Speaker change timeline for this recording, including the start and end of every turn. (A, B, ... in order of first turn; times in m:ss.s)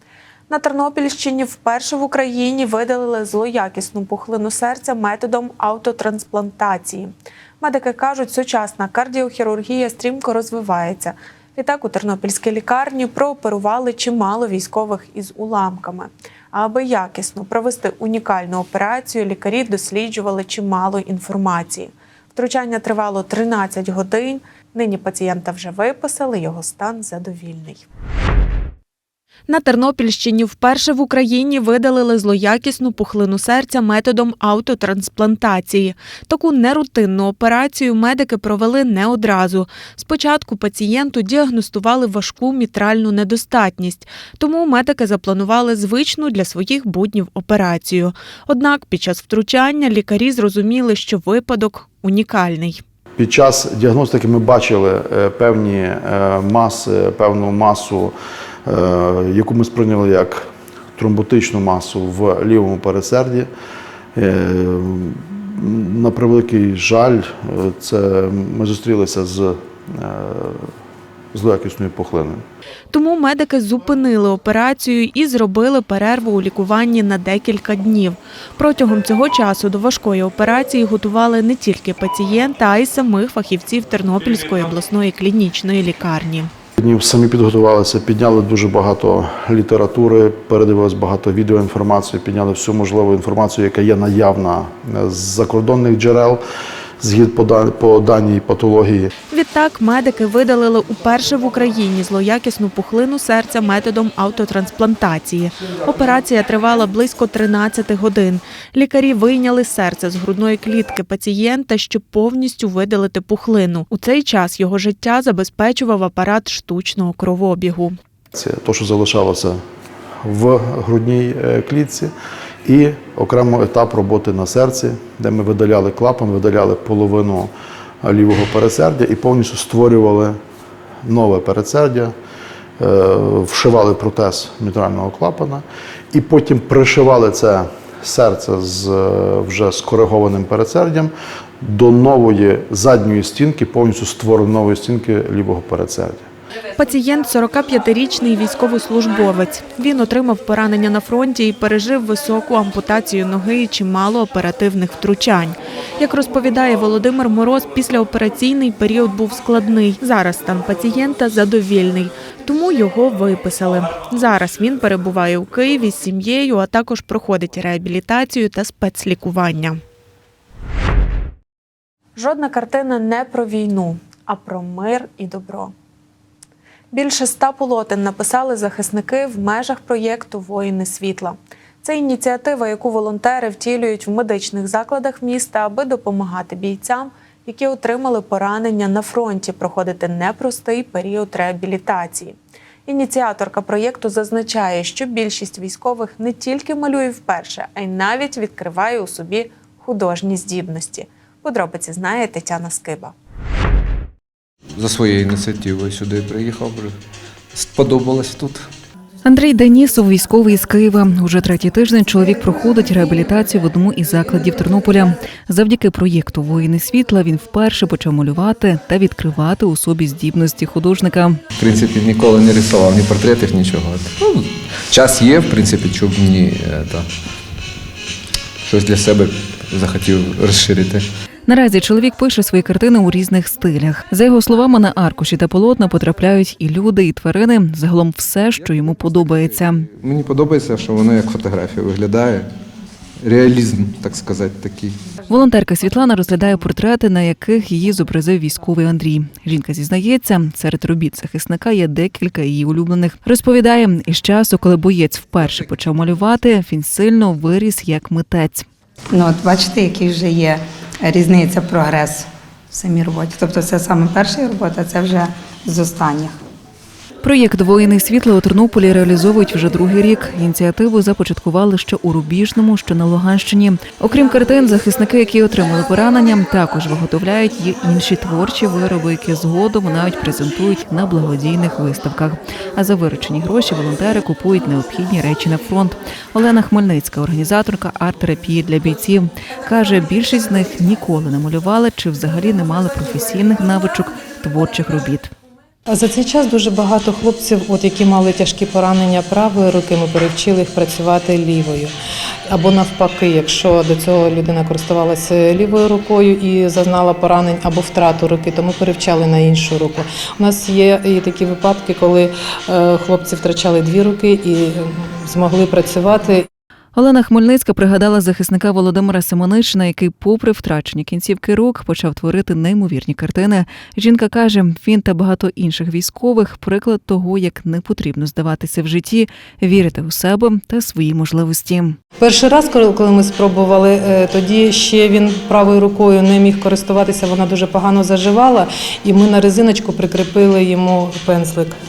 0:00.5-0:07.1 A
0:07.6-0:27.9 A
0:29.5-0:52.8 A
0:53.2-0:58.2 B
0:58.7-1:03.5 B
1:04.2-1:10.7 B
1:11.3-1:12.4 B
1:12.9-1:26.5 A
1:26.8-1:36.4 B
1:37.0-1:39.1 B
1:39.3-1:58.0 A
1:58.4-1:59.6 B
2:00.2-2:02.1 B
2:02.6-2:10.4 B
2:11.0-2:12.1 B
2:12.8-2:26.3 B
2:26.8-2:49.8 A
2:52.2-2:55.7 A
2:56.9-3:12.4 A
3:12.9-3:23.1 A
3:24.8-3:26.9 C
3:27.5-3:28.7 C
3:29.2-3:41.4 D
3:41.6-3:47.1 C
3:48.6-3:51.0 C
3:51.5-3:59.9 D
3:58.6-4:02.5 C
4:03.2-4:05.0 C
4:05.3-4:18.7 D
4:19.1-4:26.4 E
4:27.2-4:55.3 D
4:55.9-5:01.9 F
5:02.5-5:16.5 F
5:17.0-5:32.0 D
5:32.2-5:41.8 F